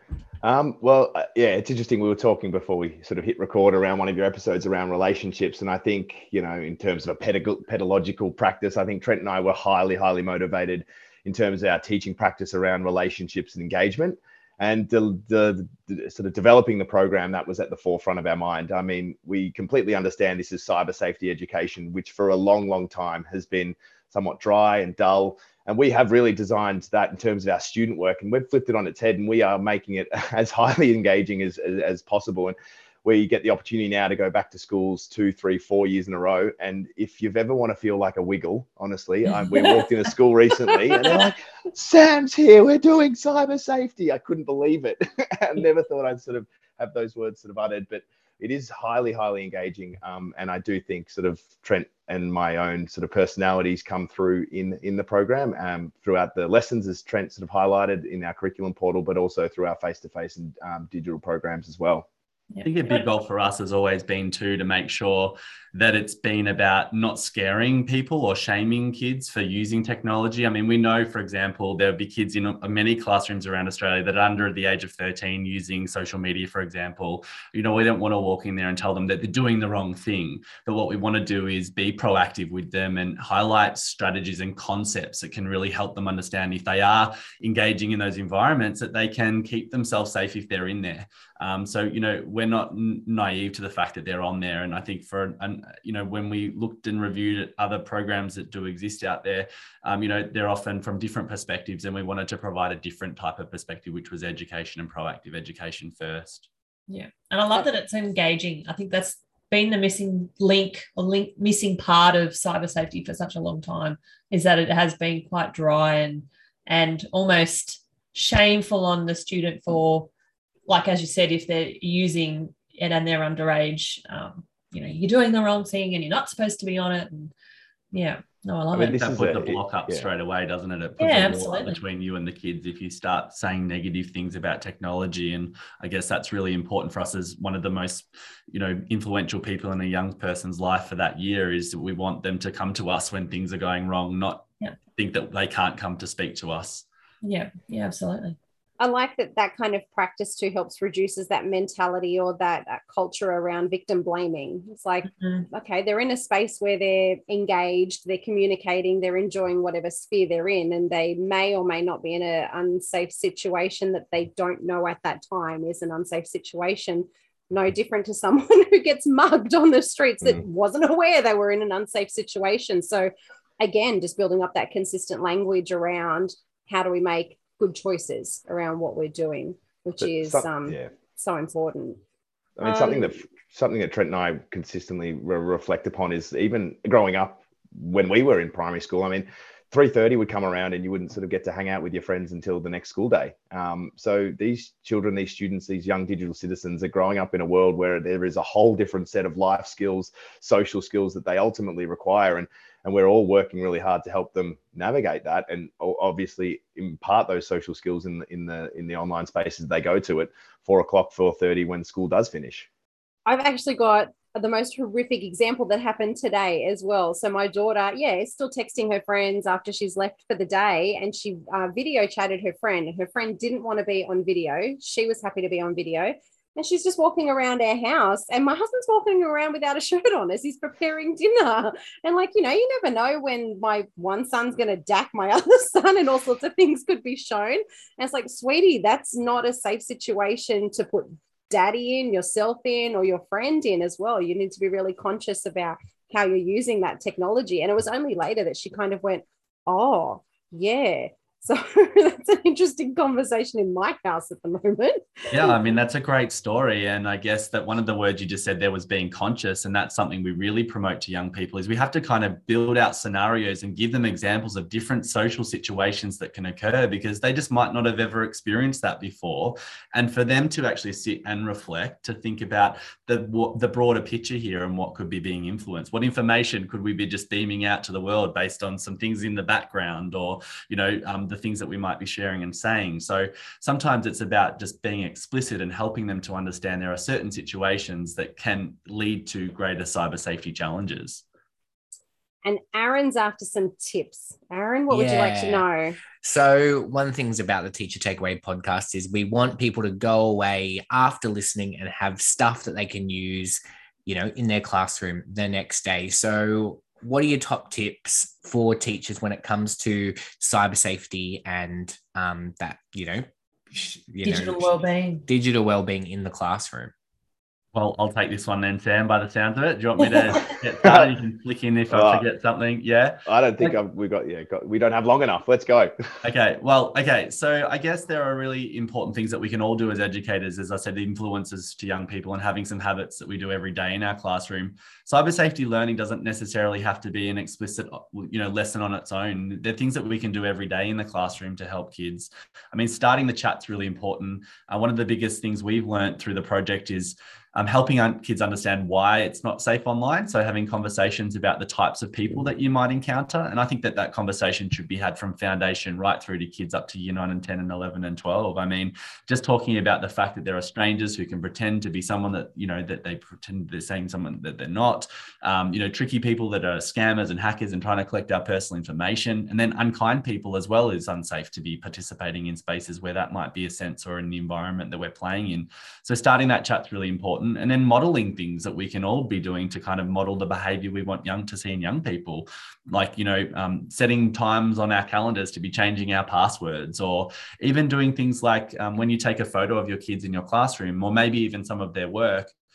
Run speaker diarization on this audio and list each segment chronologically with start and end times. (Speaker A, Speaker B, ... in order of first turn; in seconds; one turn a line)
Speaker A: 0.4-62.1
Speaker B: 39.3-39.9
Speaker B: 40.7-41.3
Speaker B: 62.5-63.0
Speaker C: 62.6-106.5
Speaker B: 106.9-120.1
Speaker B: 120.7-127.3
Speaker B: 127.9-129.0
Speaker A: 128.7-130.1
Speaker C: 128.9-146.8
Speaker B: 131.0-131.8
Speaker B: 147.2-148.4
Speaker D: 148.8-182.0
Speaker B: 155.2-155.4
Speaker A: 180.0-180.9
Speaker A: 182.6-212.7
Speaker D: 182.6-183.2
Speaker D: 213.3-255.5
Speaker C: 255.3-291.2
Speaker D: 292.4-296.0
Speaker E: 294.9-295.7
Speaker E: 296.2-316.9
Speaker B: 314.2-315.2
Speaker C: 317.7-323.2
Speaker A: 320.9-321.1
Speaker A: 321.9-322.2
Speaker A: 323.3-325.9
Speaker C: 326.2-392.5